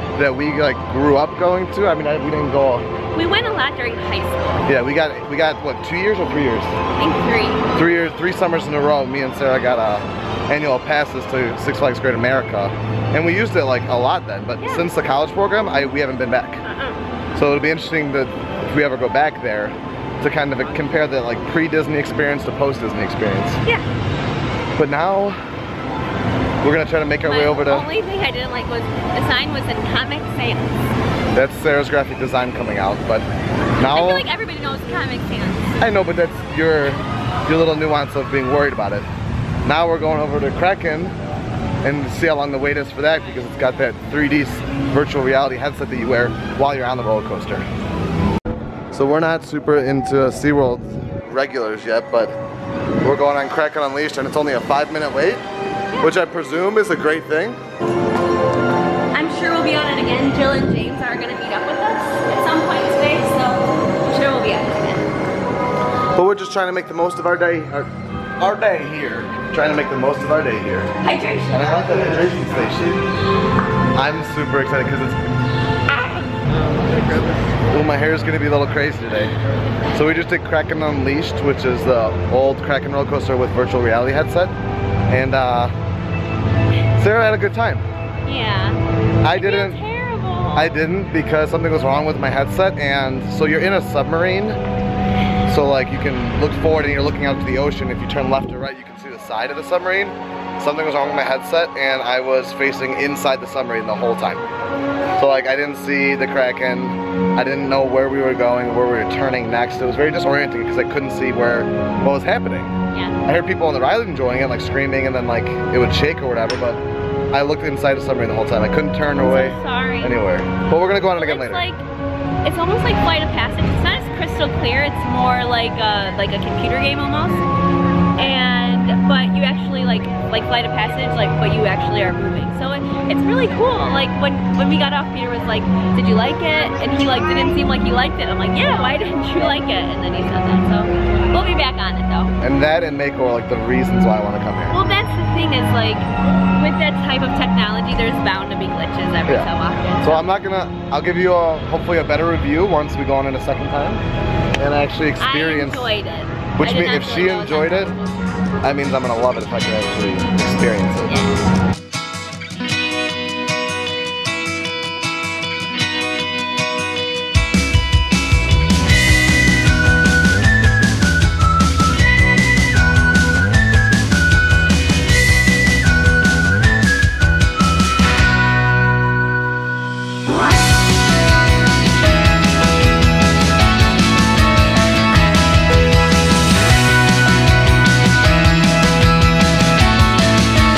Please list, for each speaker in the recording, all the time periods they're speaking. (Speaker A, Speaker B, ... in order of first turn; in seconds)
Speaker A: 0.1-2.9, 4.7-6.8, 7.7-16.6, 17.3-23.6, 24.8-25.4, 26.6-27.9, 31.4-34.3, 35.8-39.1, 39.6-41.1, 41.8-47.7, 48.9-52.4, 53.0-55.4, 56.0-57.6, 66.2-70.9, 71.5-73.0, 74.0-75.2, 77.7-79.3, 79.9-84.5, 85.1-85.7, 87.0-87.9, 89.2-89.8, 90.6-94.6, 95.5-104.5, 105.2-112.7, 113.2-121.7, 142.4-144.8, 150.0-154.0, 154.6-155.9, 156.6-157.9, 158.6-161.2
Speaker B: 3.1-4.7, 7.0-7.7, 14.6-14.9, 16.7-17.0, 27.2-30.9, 33.8-35.9, 59.1-65.1, 71.0-72.0, 88.3-90.8, 112.9-113.2, 119.2-120.2, 121.1-121.8, 122.4-127.5, 128.2-142.3, 144.7-150.2, 155.2-158.3